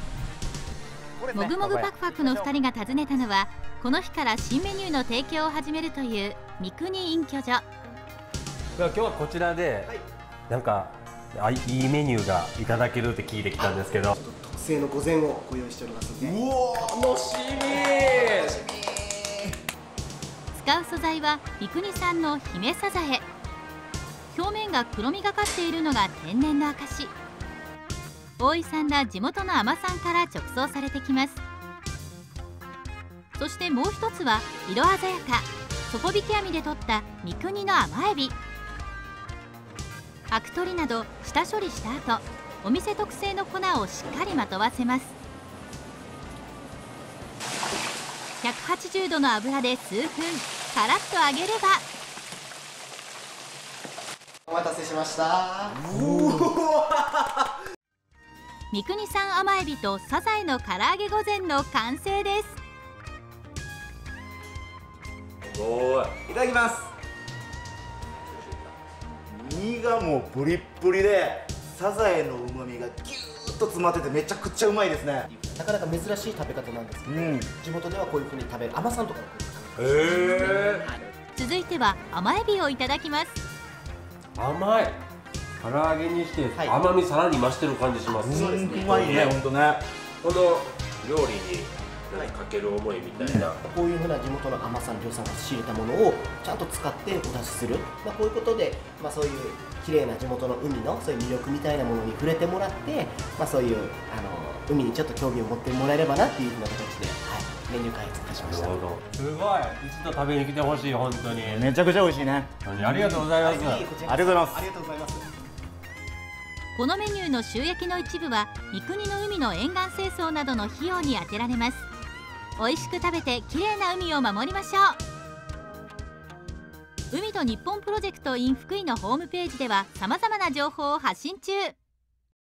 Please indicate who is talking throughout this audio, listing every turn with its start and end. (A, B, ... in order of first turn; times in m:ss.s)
0:01.2-0:02.6 A
0:01.3-0:07.7 B
0:08.8-0:09.9 C
0:10.5-0:14.2 C
0:13.6-0:16.4 D
0:16.3-0:17.0 A
0:16.8-0:18.6 C
0:18.4-0:19.3 D
0:20.5-0:23.3 B
0:24.3-0:27.1 B
0:28.4-0:31.4 B
0:33.4-0:38.4 B
0:40.3-0:45.2 B
0:48.4-0:51.9 B
0:54.5-0:57.0 D
0:55.8-0:56.6 A
0:58.7-1:02.6 B
1:05.5-1:06.2 C
1:06.2-1:06.9 A
1:08.3-1:08.7 C
1:09.3-1:15.3 A
1:15.4-1:21.0 D
1:17.1-1:17.5 A
1:19.8-1:20.9 C
1:21.4-1:23.4 B
1:24.4-1:25.0 C
1:25.6-1:29.4 C
1:28.1-1:29.4 D
1:28.2-1:29.8 A
1:30.2-1:33.6 C
1:33.2-1:33.5 A
1:33.6-1:48.8 D
1:48.4-1:51.7 C
1:51.4-1:52.6 A
1:52.6-1:53.9 C
1:52.9-1:55.3 D
1:54.0-1:54.7 A
1:56.8-2:01.9 B
2:02.6-2:05.0 B
2:07.1-2:11.8 B